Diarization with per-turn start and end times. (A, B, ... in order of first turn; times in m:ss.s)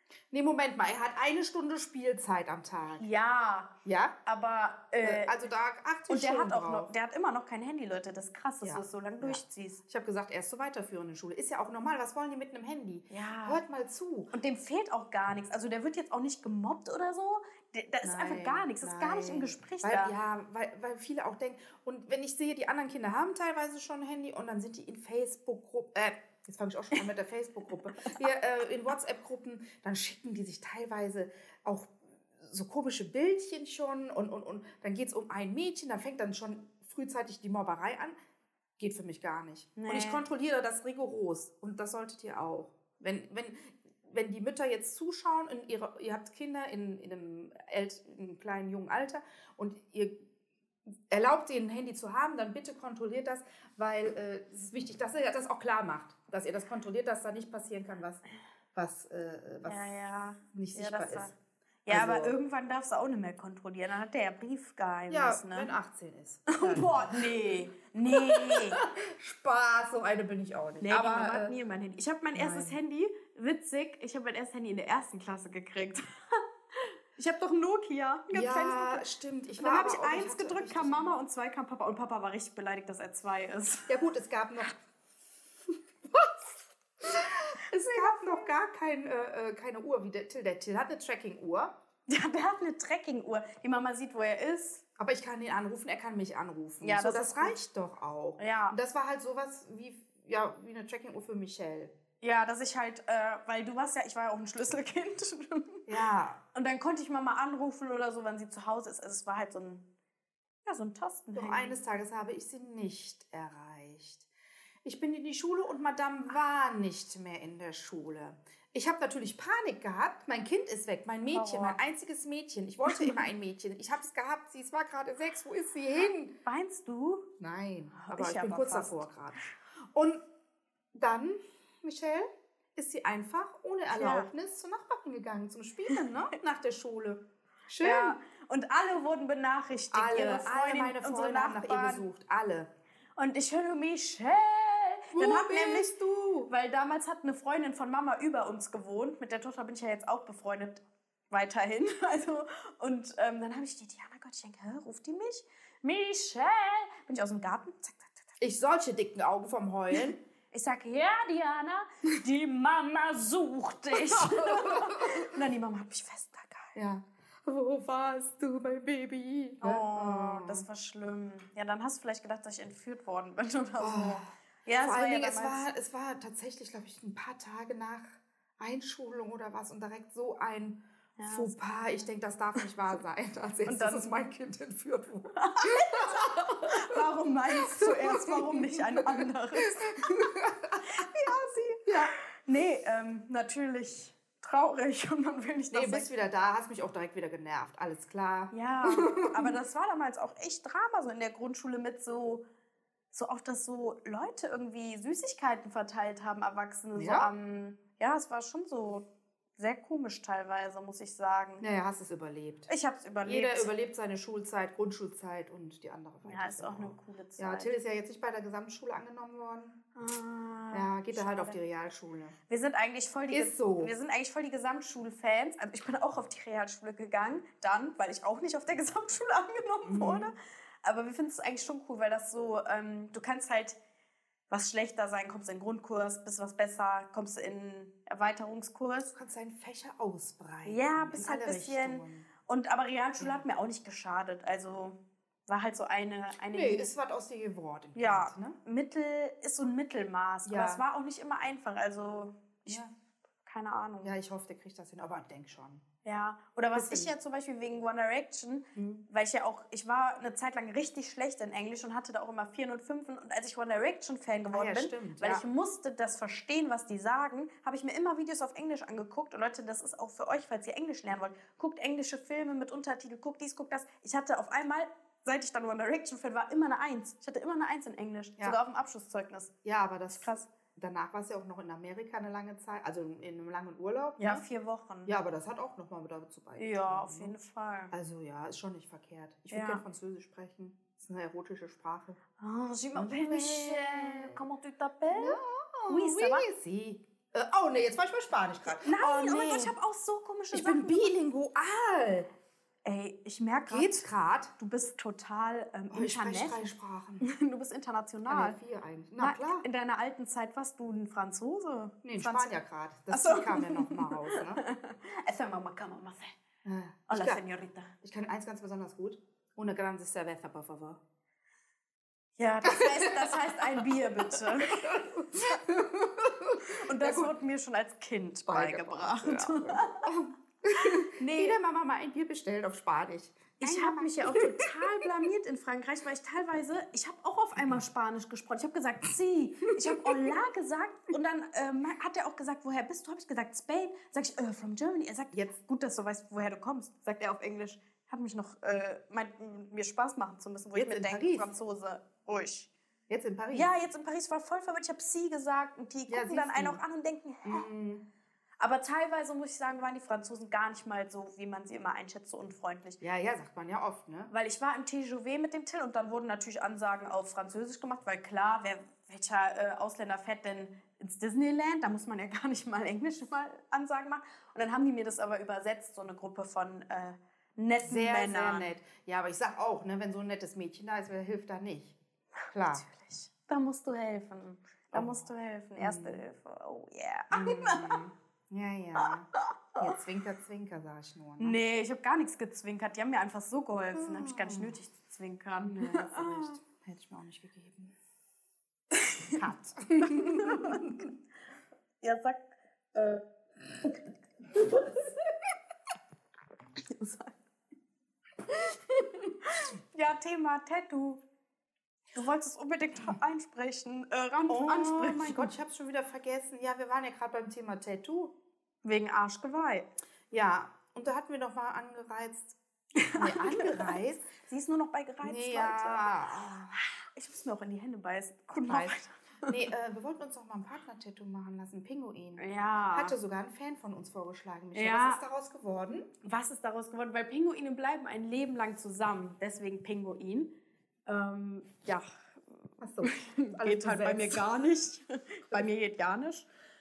0:00.3-0:03.1 A
0:03.0-0:03.7 B
0:03.8-0:04.2 A
0:04.3-0:05.4 B
0:05.0-0:06.9 A
0:06.1-0:09.8 B
0:08.6-0:14.3 A
0:13.1-0:13.6 B
0:14.3-0:20.1 B
0:18.0-0:38.2 A
0:38.8-0:50.2 A
0:39.8-0:40.2 B
0:51.1-0:58.2 A
0:58.7-0:59.9 A
0:59.7-1:01.4 B
1:00.5-1:01.3 A
1:01.9-1:05.7 B
1:01.9-1:02.4 A
1:05.1-1:07.4 A
1:06.5-1:08.8 B
1:08.1-1:11.6 A
1:10.8-1:19.1 B
1:12.4-1:12.8 A
1:18.3-1:21.1 A
1:19.6-1:24.0 B
1:23.9-1:24.7 A
1:26.1-1:26.4 A
1:27.0-1:31.8 A
1:27.8-1:28.5 B
1:32.1-1:34.8 B
1:35.0-1:41.9 A
1:36.8-1:37.6 B
1:38.4-1:38.8 B
1:42.2-1:45.9 B
1:45.9-1:46.4 A
1:46.5-1:49.8 B
1:50.6-1:51.8 B
1:51.3-1:54.3 A
1:54.8-2:06.4 A
2:01.3-2:01.8 B
2:02.9-2:03.2 B
2:06.5-2:07.3 B
2:07.4-2:10.2 A
2:08.0-2:09.0 B
2:10.9-2:18.2 A
2:13.9-2:14.3 B
2:17.8-2:22.0 B
2:19.9-2:22.7 A
2:23.2-2:26.0 B
2:25.2-2:26.5 A
2:26.5-2:38.3 B
2:38.4-2:40.2 A
2:40.0-2:46.8 B
2:43.9-2:45.3 A
2:46.8-2:50.6 A
2:49.6-2:55.7 B
2:53.8-3:07.0 A
3:01.2-3:01.6 B
3:03.7-3:04.1 B
3:05.4-3:10.3 B
3:07.6-3:12.1 A
3:10.8-3:11.9 B
3:12.5-3:16.1 B
3:15.7-3:19.5 A
3:18.5-3:22.4 B
3:23.1-3:29.1 B
3:27.0-3:27.3 A
3:29.6-3:31.6 B
3:31.6-3:32.7 A
3:32.7-3:33.7 B
3:33.2-3:39.8 A
3:36.2-3:37.7 B
3:40.0-3:41.6 B
3:40.7-3:42.4 A
3:42.5-3:53.8 B
3:43.3-3:43.9 A
3:49.8-3:50.3 A
3:54.5-3:59.2 B
3:59.1-4:02.3 A
4:00.6-4:06.9 B
4:03.2-4:03.4 A
4:06.5-4:08.6 A
4:08.0-4:12.9 B
4:10.4-4:10.8 A
4:12.7-4:12.9 A
4:13.4-4:14.1 B
4:14.0-4:15.8 A
4:16.0-4:39.6 B
4:16.7-4:17.1 A
4:18.8-4:19.0 A
4:24.5-4:25.4 A
4:39.6-4:44.4 A
4:40.1-4:40.5 B
4:44.2-4:45.1 B
4:45.0-4:47.4 A
4:46.6-4:47.9 B
4:47.9-4:52.2 A
4:49.5-4:49.8 B
4:52.4-4:56.5 B
4:53.0-4:54.4 A
4:55.1-4:59.8 A
4:58.7-5:01.1 B
5:00.5-5:02.3 A
5:02.8-5:04.1 B
5:03.7-5:04.5 A
5:04.6-5:06.7 B
5:05.9-5:07.3 A
5:07.2-5:08.6 B
5:08.3-5:09.6 A
5:09.2-5:12.6 B
5:12.0-5:14.6 A
5:13.1-5:16.4 B
5:16.6-5:17.4 A
5:17.1-5:17.9 B
5:18.0-5:21.0 A
5:22.4-5:25.6 B
5:22.7-5:27.3 A
5:26.8-5:30.1 B
5:28.5-5:35.1 A
5:30.8-5:31.6 B
5:33.6-5:52.7 B
5:39.8-5:40.3 A
5:45.3-5:45.6 A
5:50.8-5:51.5 A
5:53.1-5:53.7 A
5:53.5-5:57.7 B
5:56.1-5:56.8 A
5:57.4-5:58.0 A
5:58.6-6:03.0 B
6:03.0-6:04.3 A
6:04.3-6:18.7 B
6:17.8-6:22.0 A
6:22.5-6:22.9 A
6:22.7-6:28.0 B
6:24.9-6:26.2 A
6:27.3-6:31.6 A
6:29.0-6:29.9 B
6:31.4-6:36.6 B
6:33.9-6:34.8 A
6:35.6-6:38.0 A
6:39.0-6:39.4 B
6:39.3-6:41.0 A
6:39.9-6:41.1 B
6:42.0-6:43.2 B
6:43.8-6:45.1 B
6:46.8-6:47.3 B
6:48.5-6:51.2 B
6:52.2-6:55.5 B
6:54.5-6:58.3 A
6:58.8-6:59.9 B
7:00.3-7:02.6 A
7:03.0-7:06.2 B
7:03.2-7:04.3 A
7:05.2-7:06.8 A
7:06.7-7:09.6 B
7:08.7-7:16.1 A
7:12.4-7:13.2 B
7:14.7-7:15.2 B
7:16.2-7:20.5 B
7:21.1-7:22.2 B
7:22.8-7:24.4 A
7:23.0-7:26.5 B